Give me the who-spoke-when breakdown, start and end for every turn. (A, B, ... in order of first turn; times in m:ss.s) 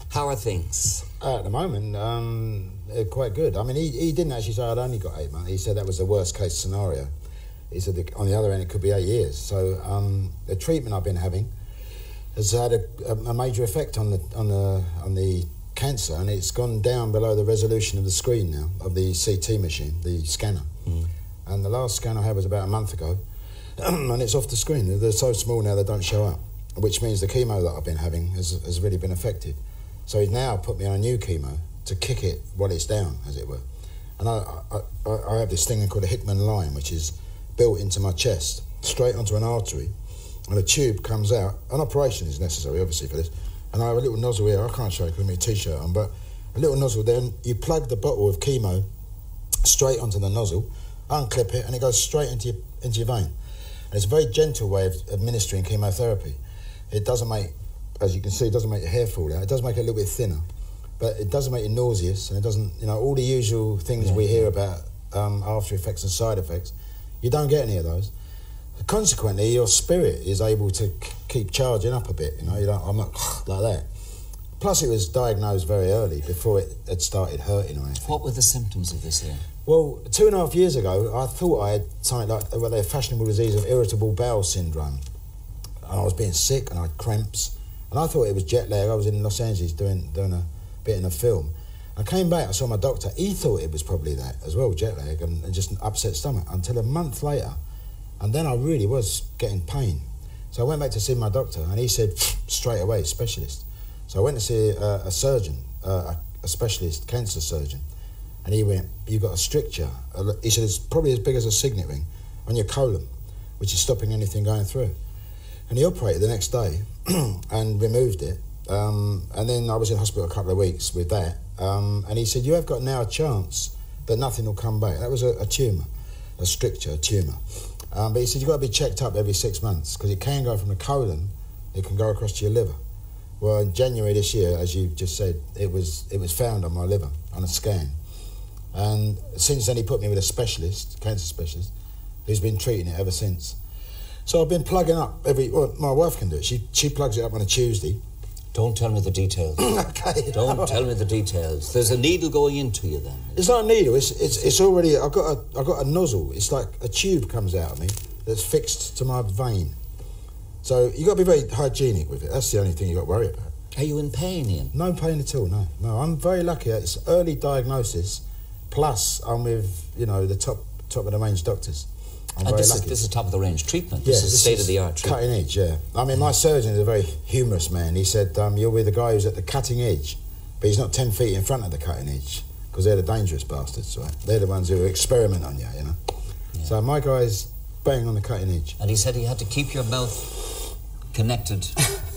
0:00.1-0:01.1 A
0:01.2-0:07.1 B
0:07.7-0:11.5 B
0:12.4-0:20.7 B
0:21.5-0:23.2 B
0:23.8-0:33.6 B
0:34.2-0:39.9 B
0:40.5-0:48.8 B
0:49.6-0:53.3 B
0:53.9-0:56.4 B
0:56.9-1:00.4 B
1:01.0-1:08.1 B
1:04.0-1:04.5 A
1:08.8-1:13.9 B
1:14.6-1:18.2 B
1:18.0-1:19.5 A
1:19.6-1:25.0 B
1:25.8-1:37.6 B
1:38.2-1:47.8 B
1:48.4-1:55.0 B
1:55.7-2:05.9 B
2:06.4-2:07.4 B
2:07.9-2:12.8 B
2:13.4-2:18.0 B
2:18.7-2:21.7 B
2:22.3-2:23.6 B
2:24.3-2:28.0 B
2:28.5-2:29.7 A
2:29.6-2:30.9 B
2:30.3-2:33.4 A
2:33.4-2:39.8 B
2:40.6-2:43.5 B
2:43.8-2:44.7 A
2:44.7-2:53.0 B
2:52.4-2:55.2 A
2:54.0-3:06.0 B
3:06.6-3:08.8 B
3:08.8-3:11.8 A